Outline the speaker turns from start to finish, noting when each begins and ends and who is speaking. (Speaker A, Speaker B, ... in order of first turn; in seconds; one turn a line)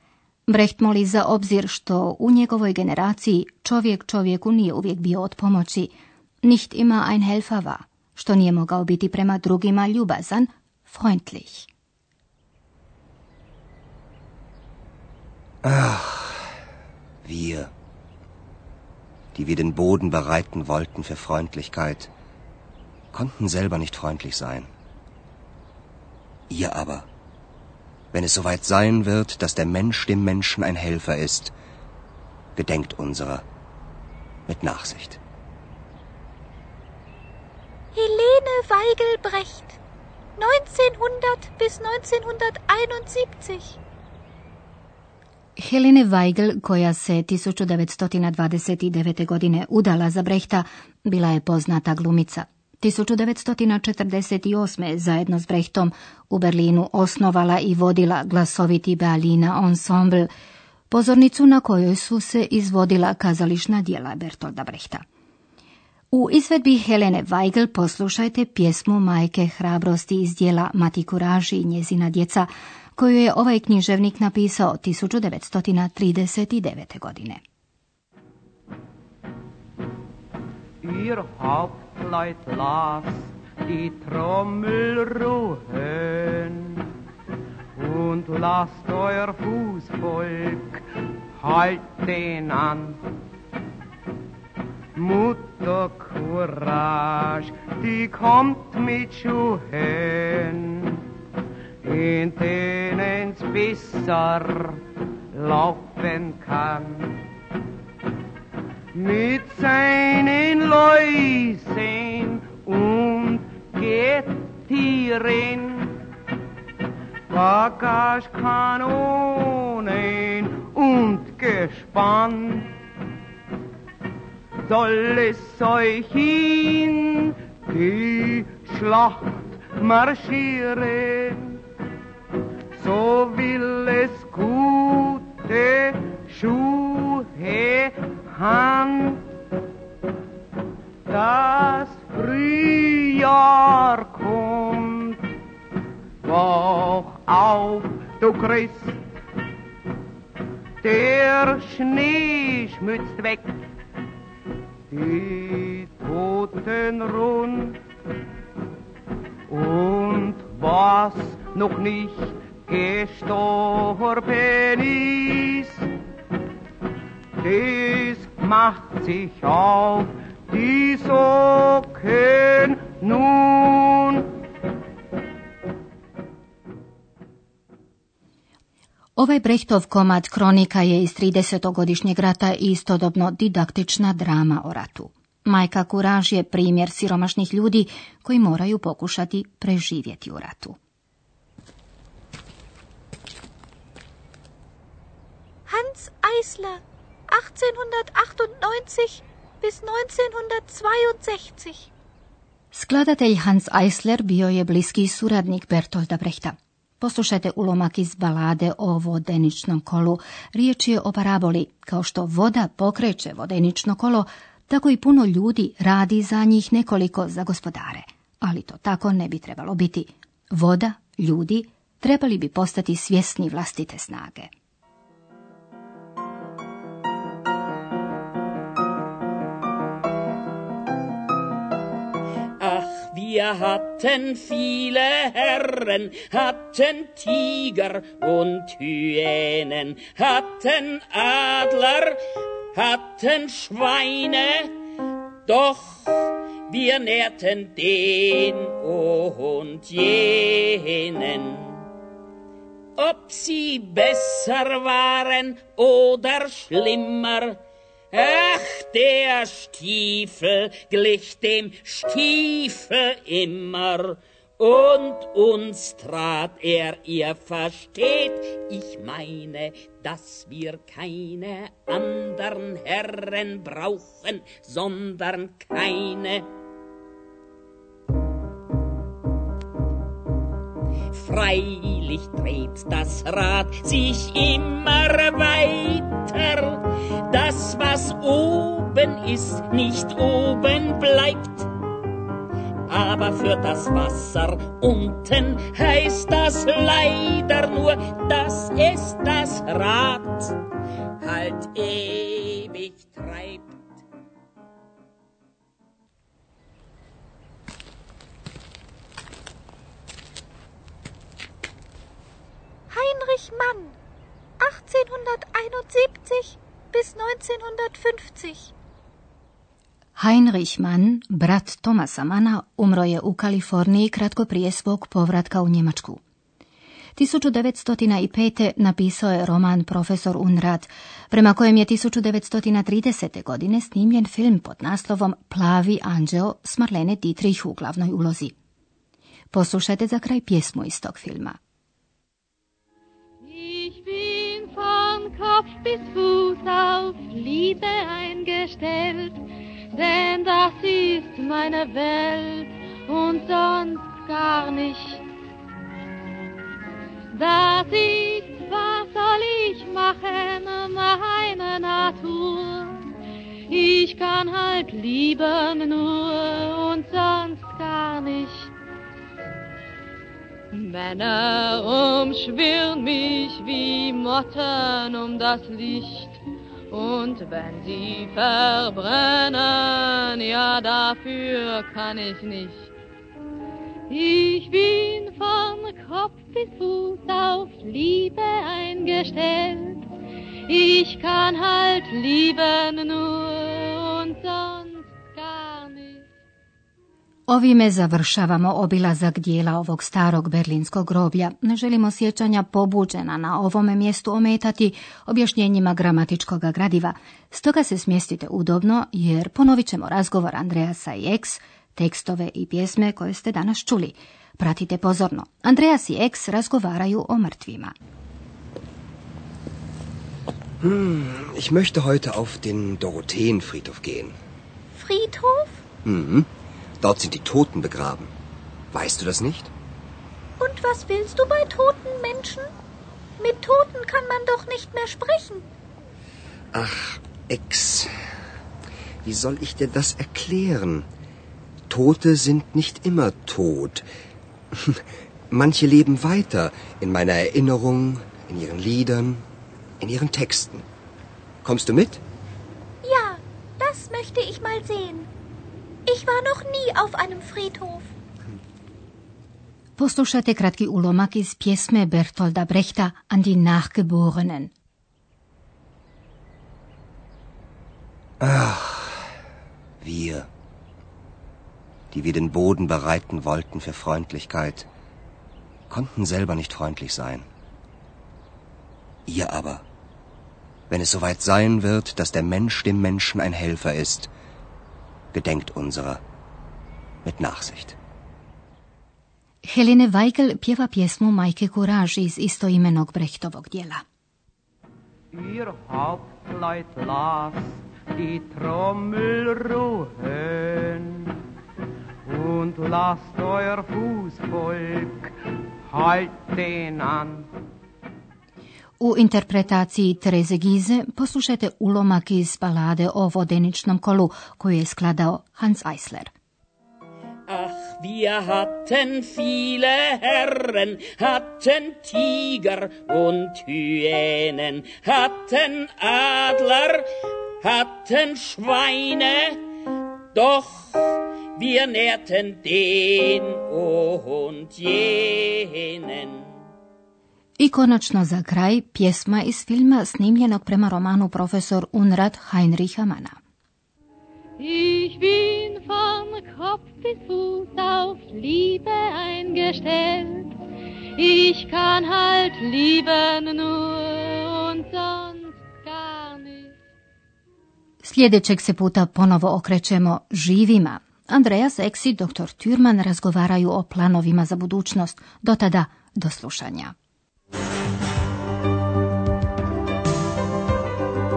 Speaker A: 0.5-11.7
Speaker B: 15.6-16.5
Speaker B: 17.2-17.7
Speaker B: 19.3-22.1
Speaker B: 23.1-24.7
Speaker B: 26.5-27.1
Speaker B: 28.1-31.5
Speaker B: 32.6-33.5
Speaker B: 34.5-35.2
Speaker C: 37.9-39.8
Speaker C: 40.4-43.8
Speaker A: 45.6-60.3
Speaker A: 60.9-65.0
Speaker A: 66.1-77.4
Speaker D: 80.8-86.9
Speaker D: 87.8-90.8
Speaker D: 91.4-93.0
Speaker D: 95.0-101.0
Speaker D: 101.8-104.8
Speaker D: 105.3-107.2
Speaker D: 108.9-116.0
Speaker D: 117.3-122.7
Speaker D: 124.7-131.6
Speaker D: 132.8-139.2
Speaker D: 141.1-145.2
Speaker D: 146.2-149.0
Speaker D: 150.8-153.5
Speaker D: 154.9-157.8
Speaker D: 159.5-165.9
Speaker D: 167.4-174.3
Speaker A: 179.2-190.8
Speaker C: 195.7-201.8
Speaker A: 202.7-224.5
Speaker E: 232.6-242.2
Speaker E: 242.7-244.8
Speaker E: 245.4-251.9
Speaker E: 253.0-257.6
Speaker E: 258.1-276.4
Speaker E: 281.1-291.7
Speaker E: 292.9-300.6
Speaker E: 301.2-303.8
Speaker C: 312.9-313.9
Speaker C: 314.6-318.7
Speaker A: 320.2-326.2
Speaker A: 327.2-338.5
Speaker A: 339.5-341.6
Speaker F: 343.4-349.4
Speaker F: 349.9-355.2
Speaker F: 357.3-363.1
Speaker F: 363.7-368.7
Speaker F: 370.7-382.9
Speaker F: 384.1-390.0
Speaker F: 390.7-396.2
Speaker A: 397.5-417.9
Speaker B: 420.8-424.4
Speaker C: 424.9-425.8
Speaker B: 426.1-426.5
Speaker B: 427.0-428.3
Speaker B: 428.9-429.7
Speaker C: 430.6-432.7
Speaker C: 433.4-435.7
Speaker B: 436.7-438.1
Speaker B: 439.2-441.1
Speaker B: 441.9-444.1
Speaker B: 444.8-449.4
Speaker B: 450.0-450.9
Speaker B: 451.6-452.2
Speaker C: 453.0-455.3
Speaker C: 456.1-458.1
Speaker A: 460.0-464.7
Speaker B: 468.4-469.3
Speaker B: 470.0-470.5
Speaker B: 472.1-474.9
Speaker B: 475.9-477.5
Speaker B: 479.3-479.9
Speaker B: 480.9-484.3
Speaker B: 485.3-486.2
Speaker B: 487.2-488.0
Speaker A: 489.6-494.0
Speaker D: 495.3-501.4
Speaker D: 502.2-505.3
Speaker D: 505.9-507.5
Speaker A: 509.0-516.3
Speaker E: 517.5-527.0
Speaker E: 527.6-529.6
Speaker E: 530.3-536.6
Speaker A: 537.6-543.4
Speaker F: 544.6-550.5
Speaker F: 551.1-556.7
Speaker A: 558.0-566.9